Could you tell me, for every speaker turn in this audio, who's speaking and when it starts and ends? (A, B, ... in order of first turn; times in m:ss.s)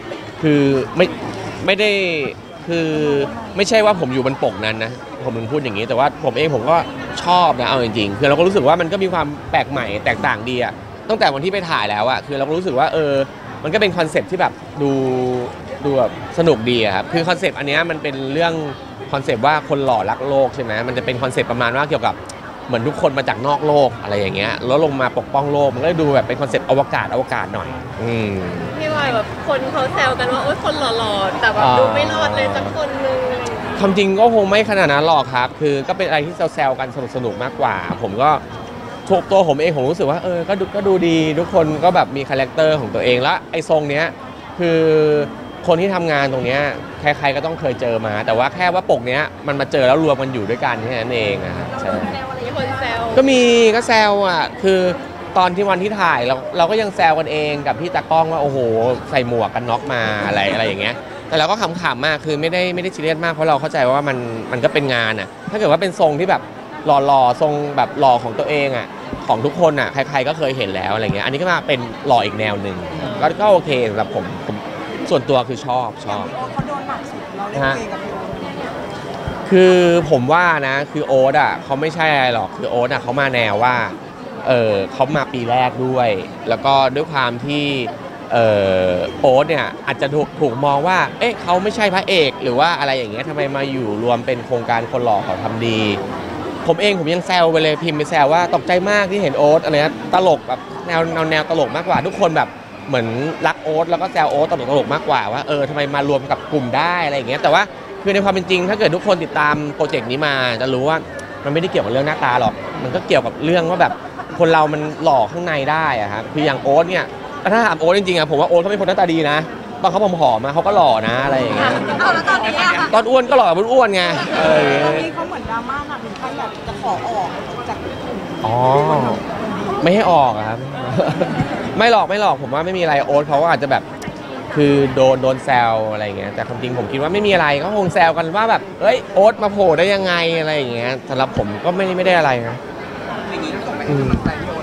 0:00.4-0:28.8 A
0:28.7-0:33.8 B
0:31.6-0:32.8 A
0:33.8-0:38.4 A
0:39.0-0:52.2 A
0:52.2-0:53.2 B
0:53.1-1:16.3 A
1:16.1-1:18.6 C
1:17.5-1:17.8 A
1:19.4-1:36.0 A
1:36.6-2:05.1 A
2:04.5-2:08.0 C
2:08.4-2:09.2 A
2:09.8-2:13.8 A
2:14.5-2:22.6 A
2:23.8-2:24.3 A